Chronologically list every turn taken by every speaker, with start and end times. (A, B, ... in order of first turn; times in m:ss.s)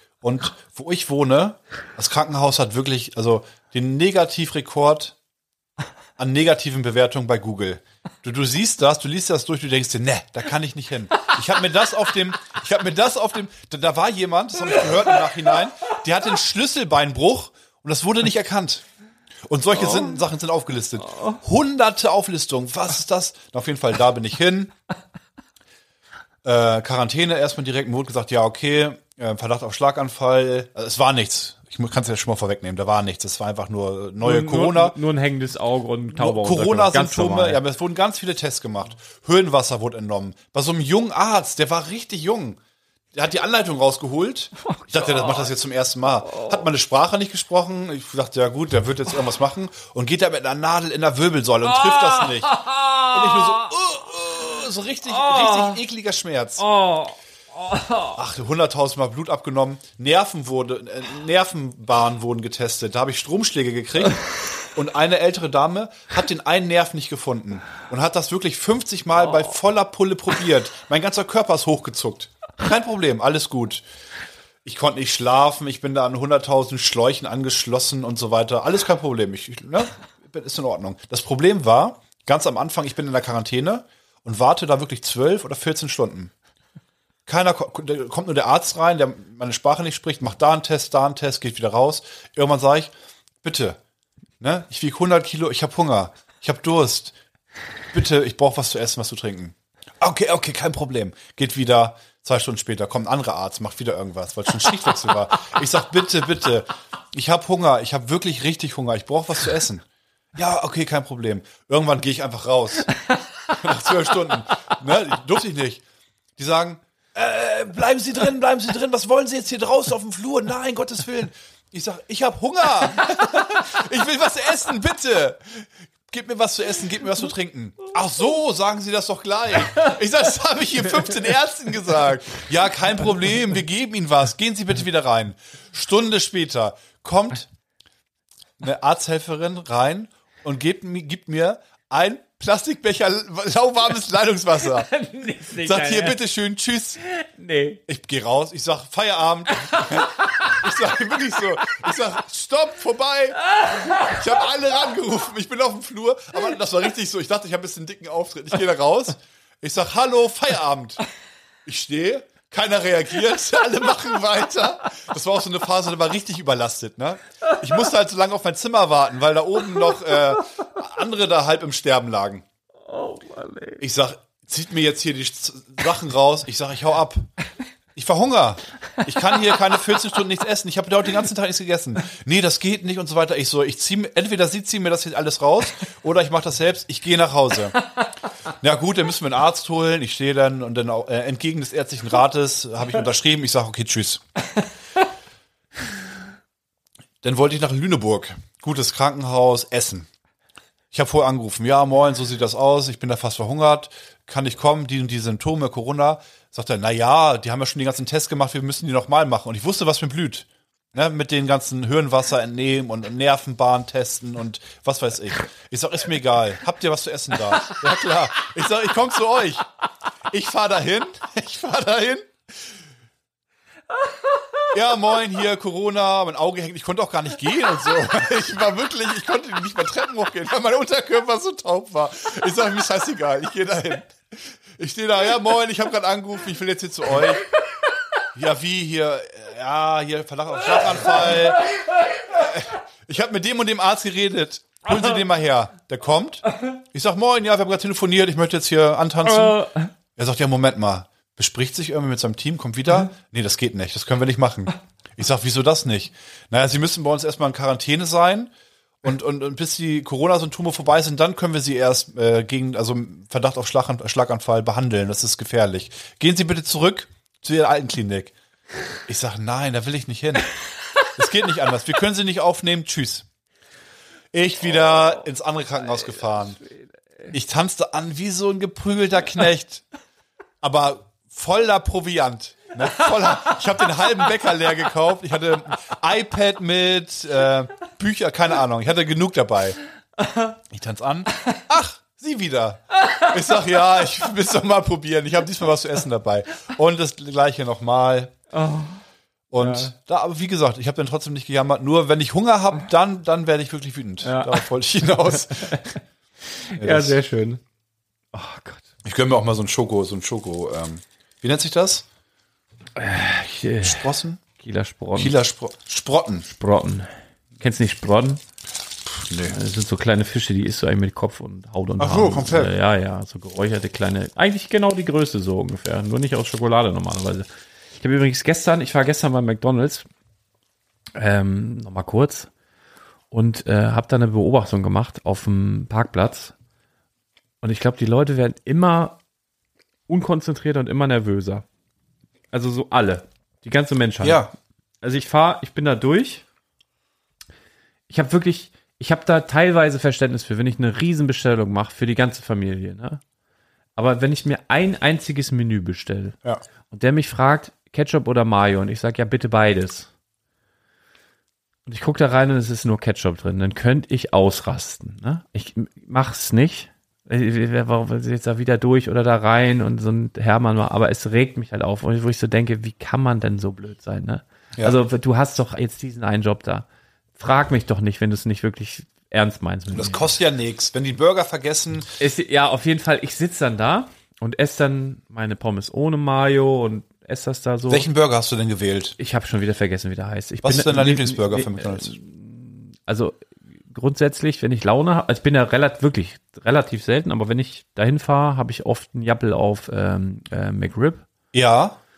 0:00.2-0:05.2 A
0:06.2-0:18.8 A
0:19.5-0:24.7 A
0:19.8-0:20.2 B
0:21.1-0:21.4 B
0:26.4-0:35.0 A
0:34.2-0:37.6 B
0:36.1-0:42.6 A
0:43.1-0:56.6 A
0:44.6-0:45.5 B
0:46.2-0:46.6 B
0:51.6-0:53.7 B
0:55.0-0:55.8 B
0:56.6-0:58.2 B
0:58.2-1:13.8 A
1:14.6-1:26.3 A
1:27.2-1:32.9 A
1:33.4-1:33.8 A
1:34.4-1:37.2 A
1:37.9-1:52.9 A
1:53.5-1:55.8 A
1:56.4-2:17.5 A
2:18.6-2:24.9 A
2:24.6-2:26.2 B
2:25.5-2:27.0 A
2:27.0-2:27.8 B
2:27.9-2:41.0 A
2:29.6-2:30.7 B
2:33.5-2:34.1 B
2:41.6-2:52.4 A
2:52.9-2:53.8 B
2:53.8-2:57.3 A
2:57.9-3:07.8 A
3:08.5-3:14.2 A
3:17.2-3:20.1 A
3:20.9-3:39.6 A
3:40.3-3:42.3 A
3:44.7-3:57.4 A
3:58.3-4:01.7 A
4:02.3-4:18.5 A
4:09.2-4:09.9 B
4:19.0-4:28.3 A
4:29.0-4:30.5 A
4:31.0-4:33.2 A
4:34.3-4:36.6 A
4:37.3-4:39.8 A
4:40.6-4:49.8 A
4:50.7-4:58.3 A
4:58.5-4:59.0 B
4:59.5-5:05.8 A
4:59.6-4:59.9 B
5:04.2-5:04.6 B
5:05.5-5:06.0 B
5:06.5-5:07.6 B
5:06.8-5:07.2 A
5:08.3-5:08.9 B
5:09.0-5:12.0 A
5:13.0-5:15.3 B
5:13.8-5:14.4 A
5:15.2-5:16.4 A
5:16.4-5:18.4 B
5:19.1-5:19.6 A
5:19.4-5:27.5 B
5:22.0-5:22.7 A
5:28.0-5:30.0 B
5:31.2-5:32.5 B
5:33.3-5:36.5 B
5:37.6-5:39.2 B
5:40.1-5:41.6 B
5:42.5-5:44.5 B
5:44.2-5:44.5 A
5:45.0-5:46.4 B
5:48.1-5:53.2 B
5:54.0-5:56.4 B
5:56.9-6:00.1 B
6:01.8-6:20.3 B
6:19.9-6:22.1 A
6:22.2-6:28.0 B
6:27.9-6:29.2 A
6:29.2-6:41.2 B
6:30.6-6:32.2 A
6:41.5-6:42.0 A